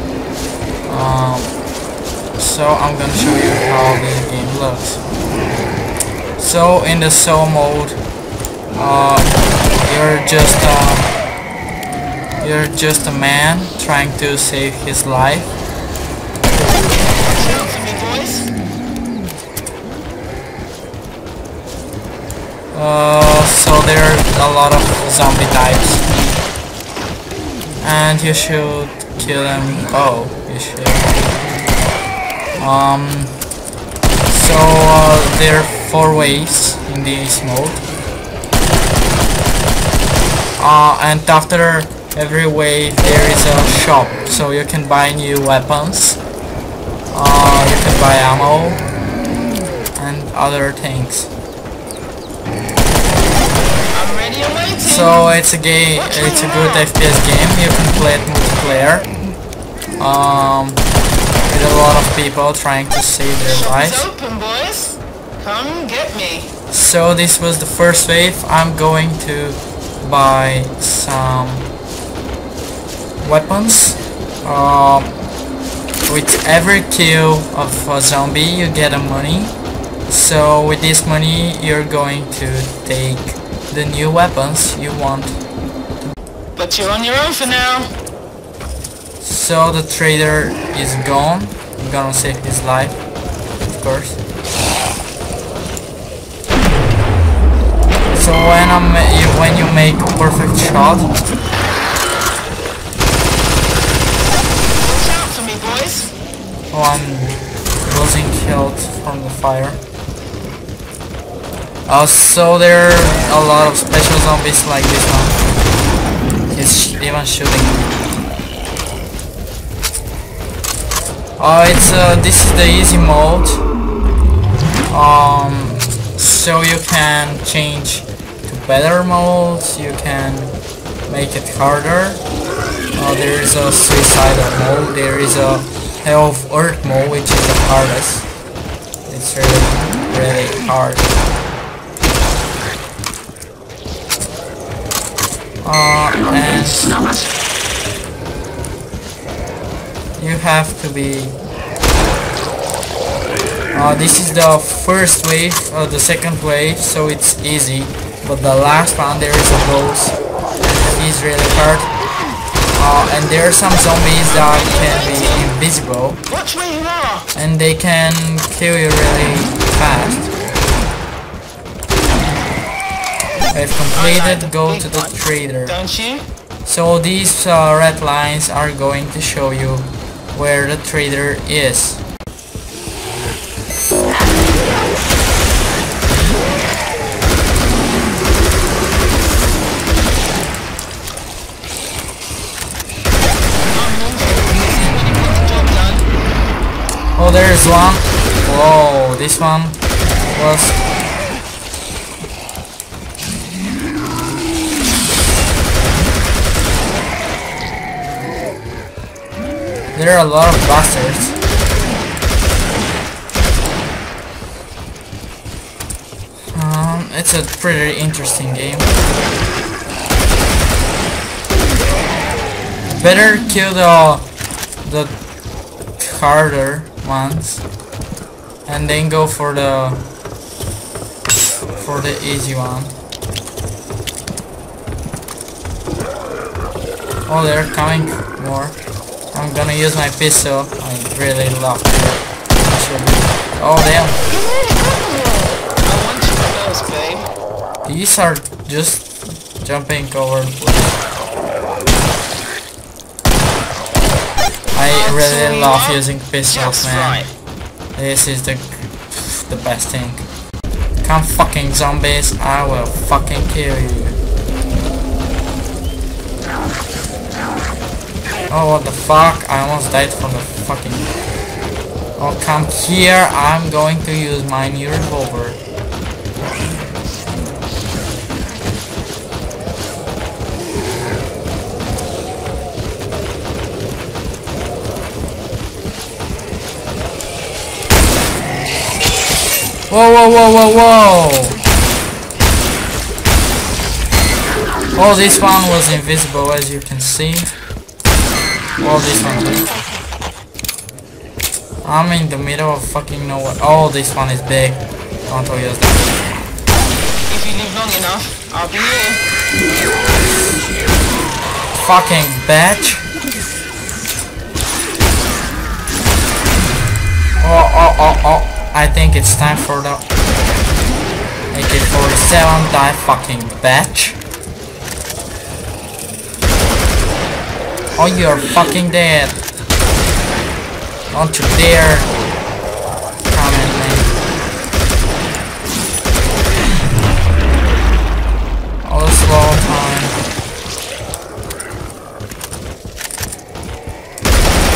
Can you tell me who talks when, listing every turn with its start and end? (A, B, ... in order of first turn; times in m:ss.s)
0:00.8-0:01.6 A
0:02.4-0:05.0 A
0:06.4-0:08.0 A
0:08.7-0:09.3 A
0:09.8-0:11.1 A
0:12.4-0:15.6 A
0:17.2-0:18.5 B
0:22.7-0:26.0 A
0:27.8-0:31.1 A
0:32.6-0:33.4 A
0:34.3-0:37.8 A
0:40.6-0:46.2 A
0:47.1-0:48.8 A
0:50.0-0:51.3 A
0:53.9-0:55.3 B
0:54.8-0:59.1 A
0:56.0-0:56.9 B
1:00.0-1:00.8 A
1:01.5-1:04.1 A
1:03.4-1:06.5 B
1:06.7-1:11.7 A
1:13.2-1:15.2 A
1:16.1-1:19.6 A
1:20.1-1:25.4 A
1:26.5-1:27.9 B
1:29.2-1:33.0 A
1:33.6-1:34.2 A
1:38.1-1:41.1 A
1:44.7-1:46.1 B
1:46.7-1:49.8 A
1:51.8-1:55.4 A
1:56.5-1:57.9 A
2:01.4-2:03.6 A
2:04.9-2:10.5 A
2:11.1-2:12.2 A
2:12.9-2:18.3 A
2:19.1-2:21.1 A
2:25.6-2:27.0 A
2:30.2-2:31.4 A
2:33.7-2:41.9 A
2:42.7-2:46.2 A
2:44.3-2:45.5 B
2:46.3-2:47.3 B
2:47.3-2:50.3 A
2:53.5-2:55.8 A
2:53.9-2:56.2 B
2:56.6-3:02.0 A
3:13.7-3:16.0 B
3:17.2-3:19.8 A
3:20.3-3:20.8 A
3:29.9-3:31.4 A
3:36.5-3:38.9 A
3:42.9-3:44.2 A
3:44.8-3:45.1 A
3:46.0-3:47.6 A
3:48.6-3:50.0 A
3:51.8-3:52.9 A
3:57.3-3:58.8 A
3:59.3-4:04.2 A
4:04.3-4:07.3 B
4:07.8-4:11.0 A
4:14.7-4:17.2 A
4:14.8-4:17.3 B
4:18.0-4:20.2 A
4:21.0-4:24.2 A
4:28.5-4:31.1 A
4:32.2-4:35.6 A
4:49.9-4:51.6 A
4:54.9-4:57.5 A
4:58.8-4:59.7 A
5:01.8-5:06.1 A
5:07.3-5:09.2 B
5:11.7-5:13.0 A
5:17.4-5:20.0 A
5:21.5-5:24.2 A
5:28.0-5:29.4 A
5:31.1-5:32.1 A
5:33.3-5:34.1 A
5:38.8-5:40.2 A